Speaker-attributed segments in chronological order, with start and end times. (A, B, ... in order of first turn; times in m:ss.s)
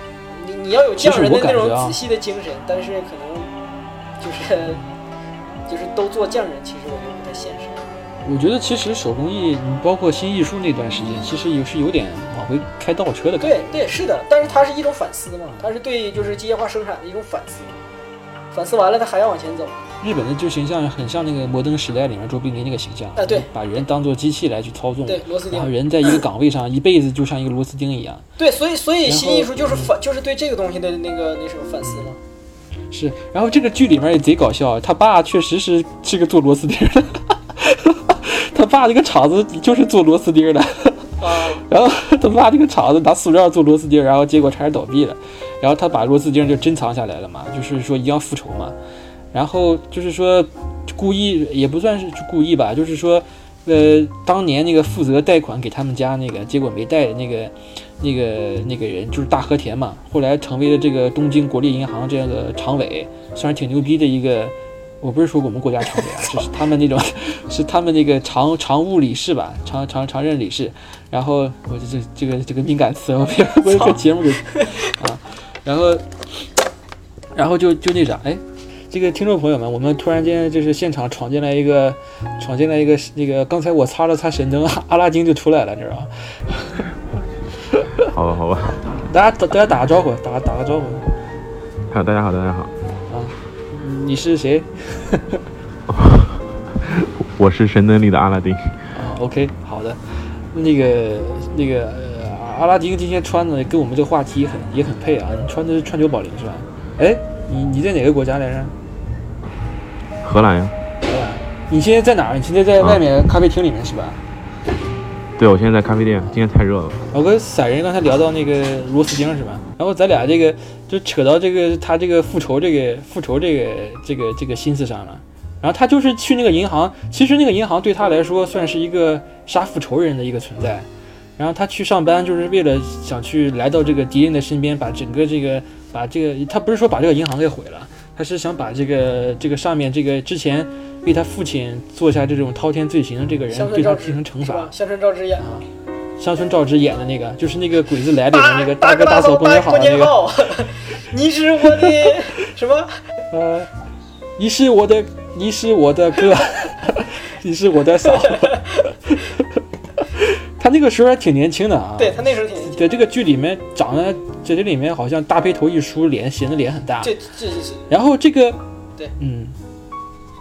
0:00.3-0:03.5 A
0:01.0-0:02.0 B
0:04.2-0:04.8 A
0:05.7-0:07.8 A
0:08.2-0:13.7 B
0:13.4-0:17.8 A
0:18.5-0:19.8 A
0:20.0-0:28.2 B
0:23.2-0:23.5 A
0:25.0-0:26.1 A
0:28.4-0:32.2 A
0:29.0-0:29.9 B
0:31.8-0:32.1 B
0:32.9-0:48.8 B
0:41.2-0:41.6 A
0:49.3-1:16.0 B
1:17.3-1:26.8 B
1:27.8-1:28.1 B
1:28.0-1:29.0 C
1:29.0-1:31.1 B
1:31.9-1:32.7 C
1:33.1-1:35.4 B
1:35.9-1:38.8 C
1:38.9-1:48.7 B
1:50.2-1:50.7 C
1:51.0-1:54.2 B
1:55.4-1:57.0 C
1:57.1-2:10.9 B
2:11.4-2:24.7 B
2:23.5-2:25.4 A
2:25.4-2:30.1 B
2:28.3-2:33.0 A
2:33.3-2:33.7 B
2:34.4-2:39.4 B
2:38.2-2:38.6 A
2:40.0-2:47.1 B
2:42.0-2:42.8 A
2:47.0-2:47.9 A
2:47.9-2:48.6 B
2:49.2-2:49.6 B